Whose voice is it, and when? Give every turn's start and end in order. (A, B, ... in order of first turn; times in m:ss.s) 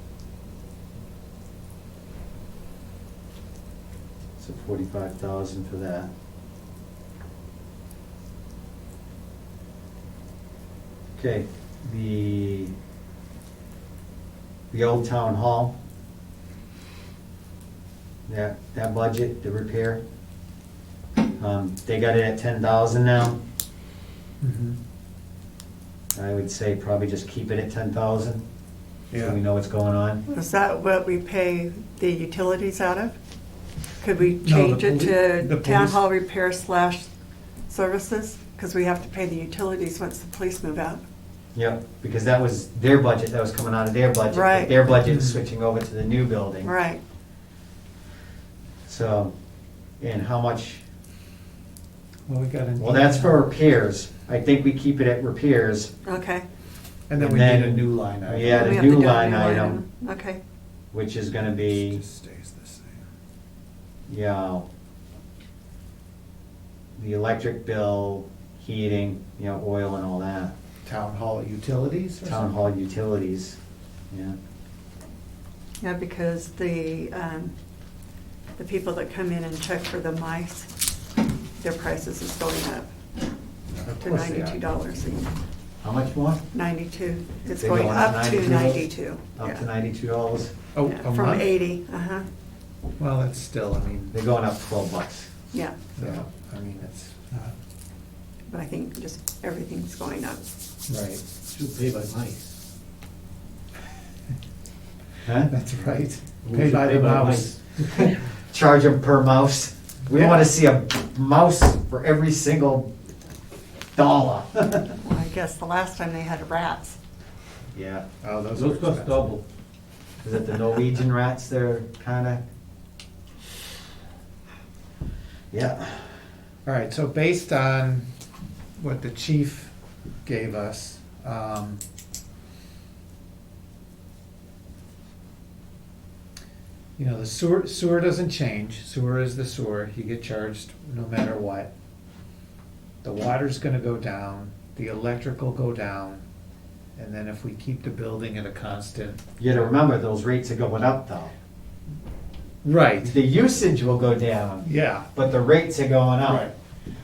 0:04.4-0:06.1 A
0:11.2-0:12.8 A
0:14.7-0:15.8 A
0:18.3-0:20.0 A
0:21.4-0:23.4 A
0:24.4-0:24.8 B
0:26.2-0:28.4 A
0:29.1-0:29.4 B
0:29.2-0:30.2 A
0:30.3-0:33.2 C
0:34.0-0:37.1 C
0:34.4-0:36.0 B
0:37.7-0:41.0 C
0:41.6-0:46.7 A
0:44.3-0:44.8 C
0:44.9-0:45.4 B
0:46.6-0:47.0 C
0:48.9-0:49.3 A
0:50.0-0:50.8 A
0:52.3-0:53.4 B
0:52.8-0:55.9 A
0:56.1-0:56.5 C
0:57.1-0:58.6 B
0:57.2-0:59.8 A
0:58.5-1:00.4 C
1:00.9-1:02.0 A
1:01.7-1:03.0 B
1:04.1-1:04.7 A
1:07.0-1:10.5 A
1:10.8-1:12.5 B
1:12.3-1:13.6 A
1:14.1-1:14.4 A
1:15.8-1:17.5 C
1:18.6-1:20.7 C
1:21.6-1:22.9 C
1:23.8-1:24.6 A
1:24.0-1:25.4 C
1:25.8-1:26.4 A
1:26.5-1:29.6 C
1:27.6-1:30.5 A
1:30.8-1:31.5 B
1:30.8-1:32.3 C
1:33.0-1:34.1 B
1:34.1-1:35.3 A
1:36.0-1:37.5 B
1:38.5-1:40.5 C
1:40.9-1:41.2 B
1:41.5-1:42.5 D
1:45.3-1:45.5 A
1:45.5-1:47.6 B
1:46.4-1:48.3 D
1:48.5-1:52.9 A
1:50.1-1:50.5 B
1:54.0-1:54.9 A
1:55.0-1:57.0 C
1:57.7-1:58.1 A
1:58.2-1:59.3 B
1:58.5-1:59.4 D
2:00.2-2:02.4 A
2:05.5-2:06.2 A
2:06.7-2:08.1 B
2:08.8-2:09.7 B
2:10.2-2:11.8 B
2:17.0-2:21.7 B
2:23.0-2:26.2 B
2:27.0-2:29.7 B
2:29.4-2:31.3 A
2:32.6-2:33.2 B
2:33.0-2:36.5 A
2:34.6-2:35.1 B
2:36.3-2:36.5 B